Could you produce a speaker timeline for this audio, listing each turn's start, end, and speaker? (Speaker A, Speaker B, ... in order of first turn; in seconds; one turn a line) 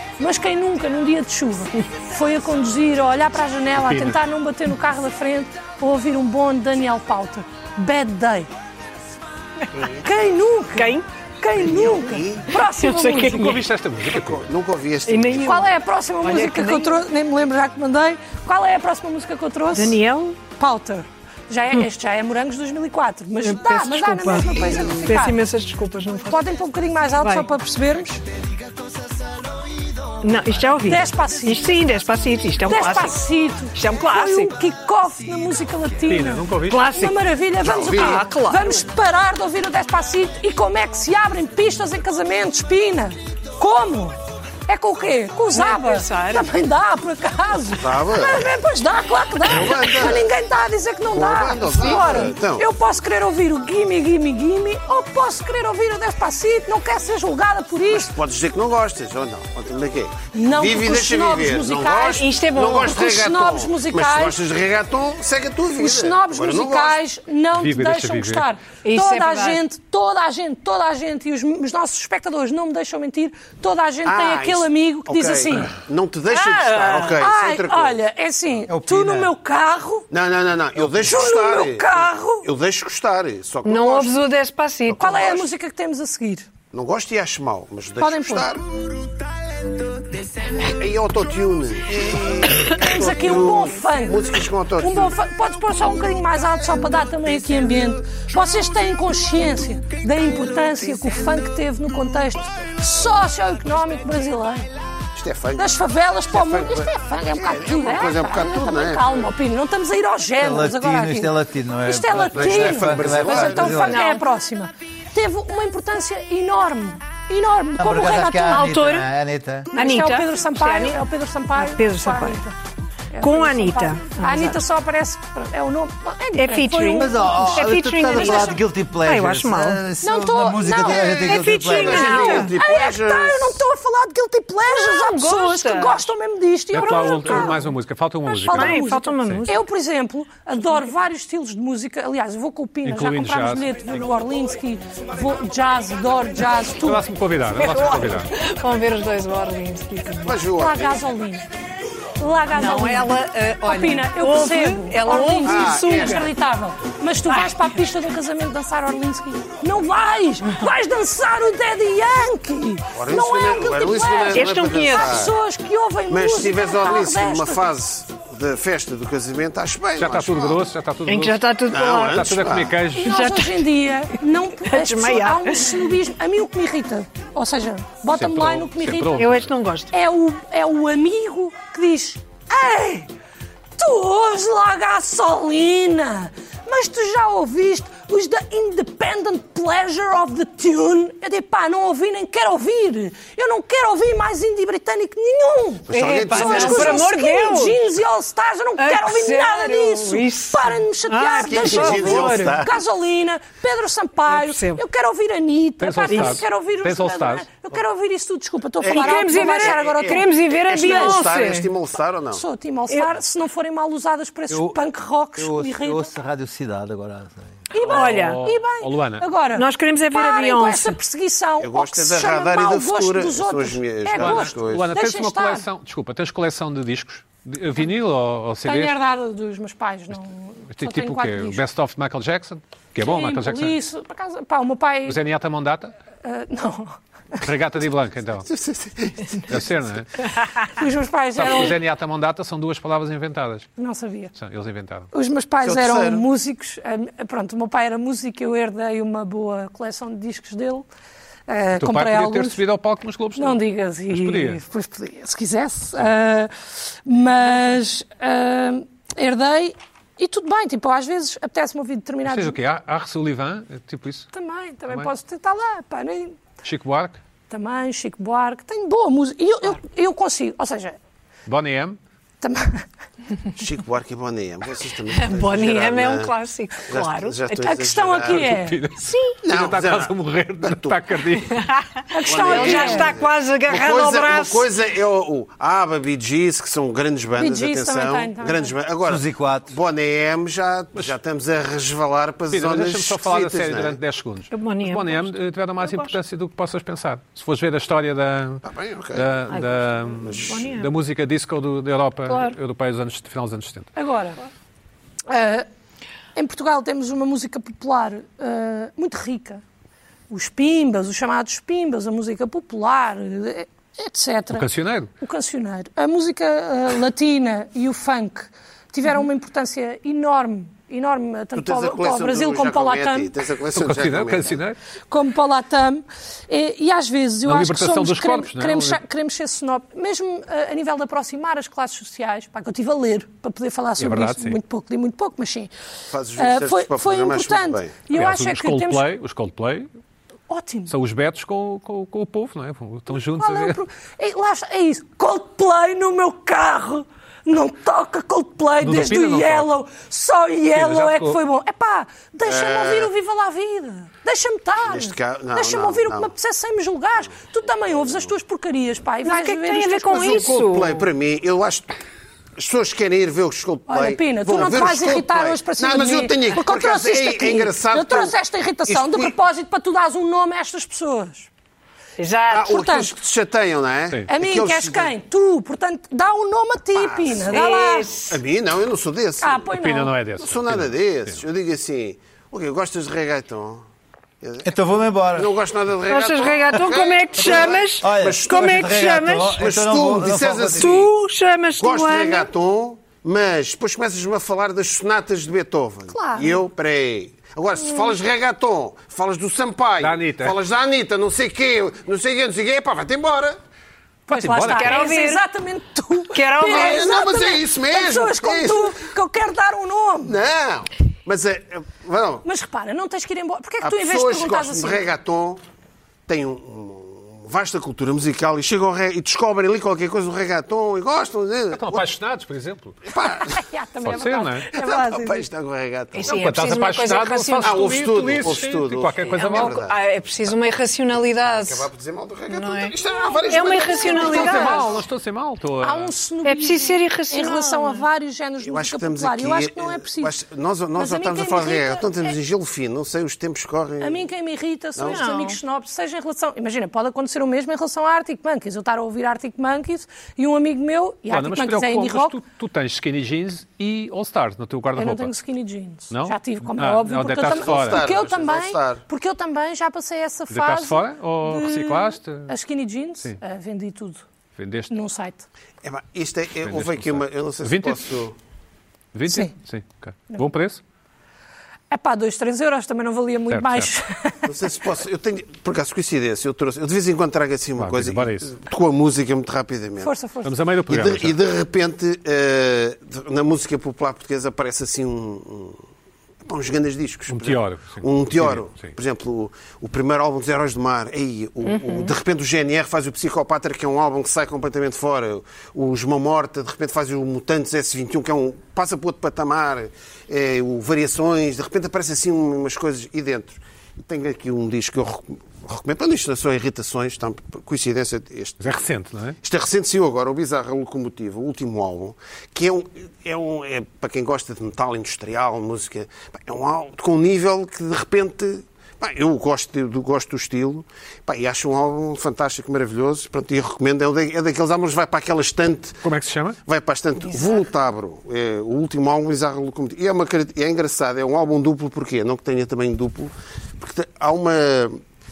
Speaker A: 0.2-8.5
Speaker B: 3.8-4.2
Speaker C: 9.7-10.1
Speaker A: 10.0-13.6
Speaker D: 10.8-11.1
Speaker C: 11.6-12.5
Speaker D: 12.5-13.6
Speaker B: 13.3-14.4
Speaker C: 14.1-15.7
Speaker D: 15.1-15.7
Speaker A: 15.4-25.4
Speaker D: 16.2-17.0
Speaker D: 19.7-20.4
Speaker D: 23.4-26.4
Speaker A: 26.3-28.2
Speaker D: 27.2-27.5
Speaker D: 30.2-34.5
Speaker A: 30.9-31.6
Speaker A: 32.7-44.2
Speaker B: 36.1-36.9
Speaker D: 36.7-37.2
Speaker C: 37.6-38.2
Speaker D: 37.8-38.8
Speaker A: 44.7-58.1
Speaker D: 45.5-46.5
Speaker C: 47.8-48.5
Speaker C: 49.5-50.3
Speaker C: 51.1-52.7
Speaker D: 51.8-52.2
Speaker C: 57.9-67.0
Speaker A: 60.3-64.4
Speaker D: 62.1-63.0
Speaker A: 65.8-75.8
Speaker B: 67.5-68.5
Speaker D: 68.8-69.6
Speaker C: 74.0-78.0
Speaker D: 76.3-77.1
Speaker A: 76.8-80.1
Speaker E: 78.7-79.3
Speaker C: 80.1-84.2
Speaker A: 81.0-82.5
Speaker D: 83.7-85.3
Speaker C: 84.9-85.5
Speaker A: 85.0-86.5
Speaker C: 86.7-88.6
Speaker A: 88.0-88.5
Speaker C: 90.7-95.2
Speaker A: 92.7-104.7
Speaker C: 105.2-109.3
Speaker A: 105.6-118.7
Speaker E: 110.4-114.0
Speaker C: 112.3-114.0
Speaker D: 113.8-114.2
Speaker E: 117.8-119.7
Speaker D: 118.5-119.1
Speaker A: 119.7-122.5
Speaker D: 119.8-121.0
Speaker D: 121.5-122.4
Speaker A: 123.1-128.6
Speaker D: 123.2-124.6
Speaker D: 126.4-129.8
Speaker E: 126.9-132.4
Speaker A: 130.0-131.4
Speaker C: 130.9-133.6
Speaker D: 131.1-132.5
Speaker A: 132.1-137.7
Speaker D: 134.7-136.1
Speaker B: 136.7-139.5
Speaker D: 137.3-137.6
Speaker A: 138.3-147.1
Speaker D: 138.5-139.6
Speaker B: 142.8-144.1
Speaker B: 146.8-148.3
Speaker D: 147.6-150.4
Speaker C: 150.2-151.1
Speaker A: 150.5-151.5
Speaker A: 152.2-167.7
Speaker D: 152.5-156.3
Speaker C: 155.4-156.3
Speaker D: 157.3-157.7
Speaker C: 162.9-165.4
Speaker D: 164.3-165.2
Speaker C: 166.1-170.6
Speaker B: 170.0-171.4
Speaker D: 171.1-172.3
Speaker C: 171.7-172.8
Speaker B: 172.0-173.3
Speaker A: 172.9-179.2
Speaker D: 173.1-173.7
Speaker D: 174.6-175.9
Speaker B: 178.1-179.5
Speaker D: 179.2-179.9
Speaker A: 179.9-183.1
Speaker A: 183.8-211.2
Speaker C: 195.9-197.1
Speaker D: 195.9-197.8
Speaker D: 198.8-202.6
Speaker C: 201.4-202.8
Speaker D: 204.3-204.8
Speaker B: 205.8-207.5
Speaker D: 206.1-206.4
Speaker C: 208.8-212.4
Speaker D: 208.8-211.7
Speaker A: 212.3-216.1
Speaker E: 214.5-214.8
Speaker E: 215.4-217.6
Speaker A: 217.7-225.7
Speaker D: 217.8-218.4
Speaker B: 217.8-219.3
Speaker D: 219.6-221.0
Speaker C: 221.6-224.9
Speaker B: 224.2-229.0
Speaker A: 228.6-231.6
Speaker B: 230.7-233.8
Speaker A: 233.0-235.2
Speaker B: 235.1-235.9
Speaker A: 236.2-237.0
Speaker B: 237.4-238.5
Speaker C: 238.4-239.7
Speaker B: 239.5-240.1
Speaker A: 240.7-241.8
Speaker B: 241.3-243.7
Speaker A: 243.8-244.3
Speaker B: 244.3-245.1
Speaker A: 245.1-250.9
Speaker C: 245.6-246.2
Speaker A: 251.5-252.6
Speaker B: 251.8-254.6
Speaker A: 253.4-262.6
Speaker B: 262.2-264.3
Speaker A: 264.3-266.4
Speaker B: 266.6-267.2
Speaker A: 267.5-271.0
Speaker B: 271.5-272.0
Speaker A: 272.4-272.9
Speaker C: 273.6-276.3
Speaker D: 275.1-277.6
Speaker C: 276.9-278.5
Speaker A: 277.6-278.8
Speaker B: 278.2-281.7
Speaker D: 279.1-279.3
Speaker C: 279.4-281.0
Speaker D: 281.5-284.7
Speaker A: 282.1-283.2
Speaker C: 282.2-294.0
Speaker A: 287.4-288.8
Speaker E: 289.1-289.8
Speaker B: 292.5-303.9
Speaker D: 294.5-296.2
Speaker C: 298.6-299.3
Speaker C: 300.2-300.7
Speaker D: 300.3-300.9
Speaker D: 302.3-302.6
Speaker A: 304.0-304.4
Speaker A: 305.3-305.7
Speaker A: 306.4-309.6
Speaker A: 310.3-323.4
Speaker B: 314.5-315.1
Speaker C: 321.6-324.6
Speaker B: 323.7-324.8
Speaker A: 325.1-335.7
Speaker B: 327.4-329.0
Speaker B: 334.0-334.6
Speaker C: 336.1-338.0
Speaker A: 336.4-339.1
Speaker B: 338.1-339.9
Speaker A: 340.5-340.9
Speaker B: 340.9-343.8
Speaker A: 343.1-360.4
Speaker B: 348.8-349.7
Speaker B: 350.7-351.4
Speaker C: 352.4-353.1
Speaker C: 354.8-356.3
Speaker C: 357.9-358.3
Speaker D: 359.2-361.1
Speaker C: 360.1-362.0
Speaker C: 362.6-368.4
Speaker A: 363.9-371.5
Speaker C: 368.9-369.3
Speaker D: 372.2-372.7
Speaker C: 372.5-375.1
Speaker A: 372.6-373.1
Speaker A: 374.3-378.2
Speaker C: 376.9-377.6
Speaker D: 377.5-378.4
Speaker C: 378.3-379.7
Speaker A: 379.4-380.2
Speaker B: 379.7-381.4
Speaker C: 380.4-383.9
Speaker C: 384.4-384.7
Speaker E: 384.6-385.5
Speaker C: 385.3-388.9
Speaker D: 386.1-389.6
Speaker E: 387.4-391.0
Speaker C: 389.5-391.1
Speaker D: 390.7-392.5
Speaker C: 391.8-403.6
Speaker A: 396.1-396.6
Speaker B: 400.0-400.6
Speaker B: 404.3-405.0
Speaker A: 404.3-410.4
Speaker D: 404.6-405.4
Speaker D: 406.3-407.1
Speaker C: 406.6-409.1
Speaker C: 410.2-412.4
Speaker A: 412.4-415.1
Speaker C: 413.8-415.6
Speaker C: 416.3-422.1
Speaker B: 421.7-423.0
Speaker C: 423.1-423.6
Speaker A: 423.5-425.5
Speaker B: 424.0-424.7
Speaker C: 424.7-426.3
Speaker D: 426.1-427.9
Speaker B: 426.3-429.8
Speaker C: 427.6-430.0
Speaker D: 429.4-431.9
Speaker C: 431.5-435.0
Speaker D: 432.5-432.9
Speaker A: 433.3-434.8
Speaker D: 433.5-434.9
Speaker B: 434.2-436.1
Speaker A: 435.8-440.3
Speaker D: 436.4-438.1
Speaker C: 438.6-444.3
Speaker A: 441.0-442.3
Speaker A: 444.0-452.4
Speaker C: 444.9-445.2
Speaker D: 445.1-445.6
Speaker B: 451.3-455.3
Speaker A: 455.0-464.2
Speaker B: 456.1-458.1
Speaker C: 457.4-459.1
Speaker B: 460.5-462.6
Speaker B: 464.6-464.9
Speaker A: 464.9-465.5
Speaker C: 465.8-468.4
Speaker B: 466.6-468.1
Speaker B: 469.1-470.8
Speaker A: 469.3-469.5
Speaker A: 471.9-474.5
Speaker B: 473.5-473.9
Speaker C: 474.5-480.1
Speaker B: 477.8-478.5
Speaker A: 480.0-480.5
Speaker B: 480.4-481.4
Speaker C: 480.9-485.8
Speaker C: 486.4-508.7
Speaker B: 487.3-488.9
Speaker D: 491.6-492.1
Speaker B: 508.6-509.4
Speaker C: 509.4-526.0
Speaker B: 526.0-526.6
Speaker C: 526.7-535.0